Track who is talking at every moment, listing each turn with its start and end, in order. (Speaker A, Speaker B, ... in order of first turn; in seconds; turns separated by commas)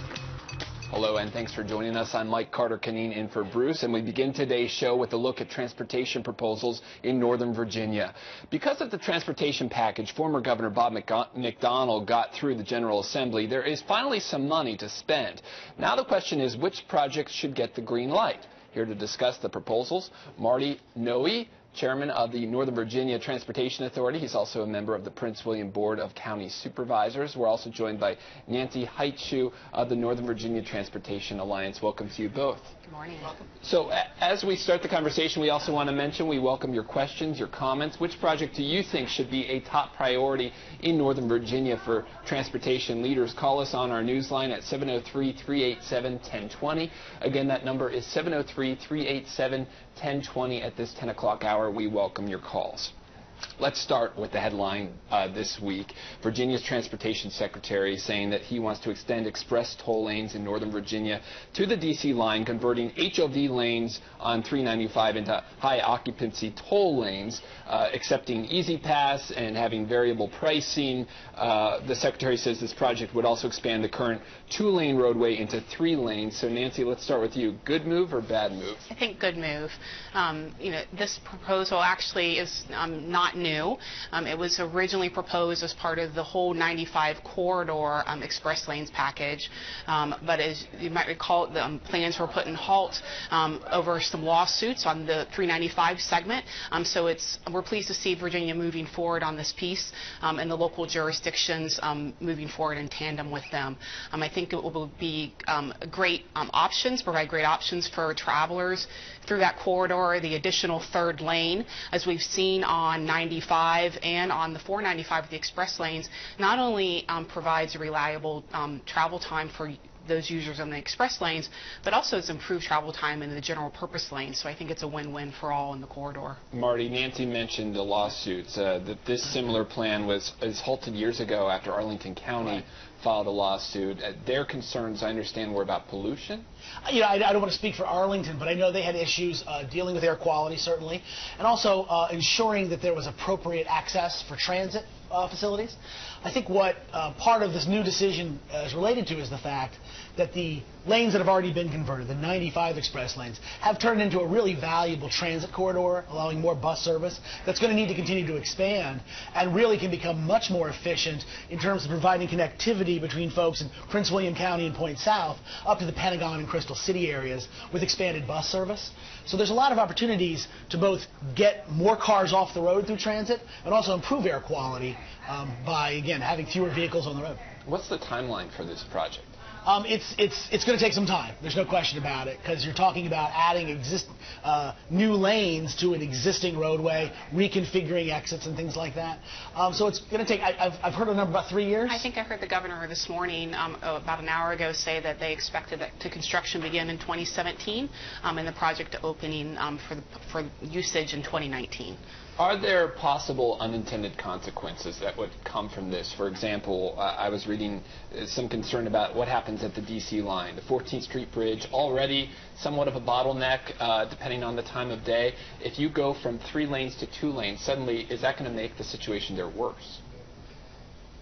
Speaker A: 0.9-32.7, Speaker B: 32.8-33.4, Speaker A: 33.6-52.9, Speaker A: 53.6-78.8, Speaker B: 78.9-126.4, Speaker A: 126.5-136.4, Speaker C: 136.8-177.4, Speaker A: 177.6-179.3, Speaker C: 179.6-192.1, Speaker B: 191.9-202.0, Speaker A: 202.4-220.0